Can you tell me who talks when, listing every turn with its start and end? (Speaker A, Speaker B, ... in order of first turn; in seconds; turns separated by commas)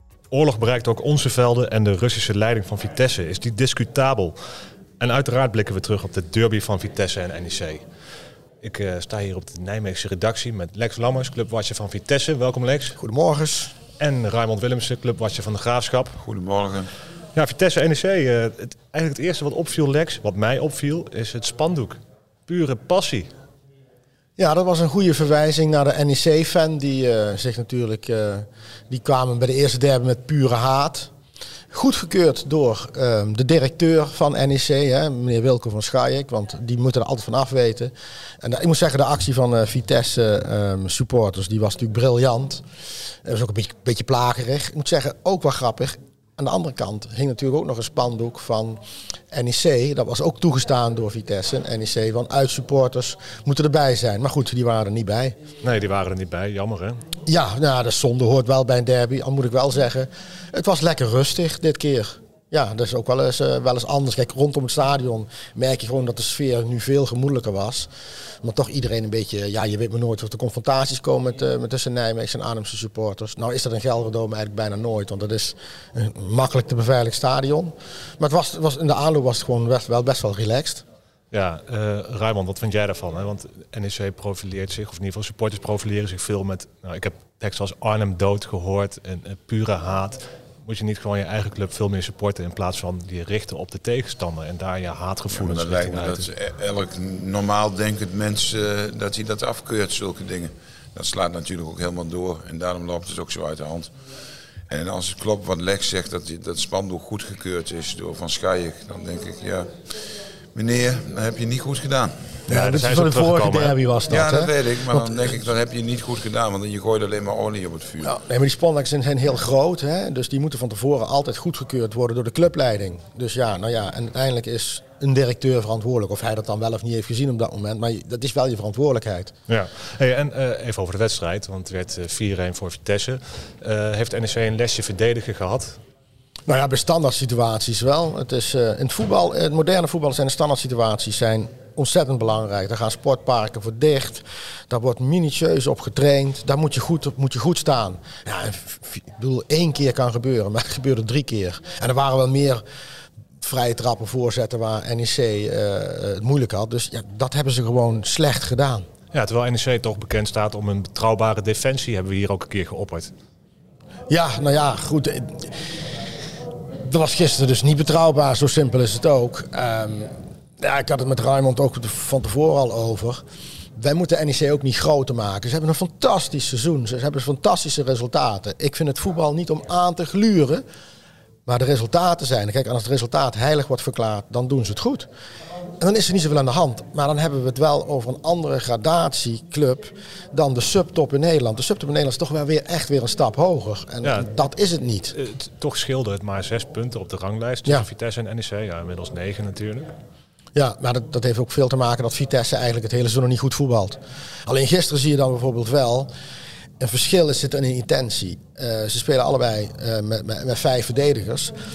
Speaker A: 0.3-4.4, Speaker A: 5.0-7.8, Speaker A: 8.6-13.0, Speaker B: 13.0-13.8, Speaker A: 14.0-16.2, Speaker C: 16.2-16.9, Speaker A: 17.3-23.3, Speaker B: 24.4-31.1, Speaker B: 31.7-42.6, Speaker B: 43.2-55.4, Speaker A: 55.6-57.0, Speaker B: 57.3-67.9, Speaker B: 68.4-80.8, Speaker A: 81.3-96.3, Speaker C: 95.3-103.9, Speaker C: 104.7-109.7, Speaker C: 110.5-112.1, Speaker B: 112.5-115.3, Speaker A: 112.5-113.8, Speaker C: 114.1-118.1, Speaker B: 118.0-129.3, Speaker A: 129.5-135.8, Speaker B: 136.5-152.6, Speaker B: 153.4-158.8, Speaker A: 159.1-163.1, Speaker B: 164.1-165.5, Speaker B: 166.8-173.2, Speaker B: 173.8-180.6, Speaker B: 181.5-185.1, Speaker B: 185.8-195.2, Speaker A: 194.0-194.3, Speaker A: 195.1-199.9, Speaker B: 200.6-206.1, Speaker B: 206.8-211.5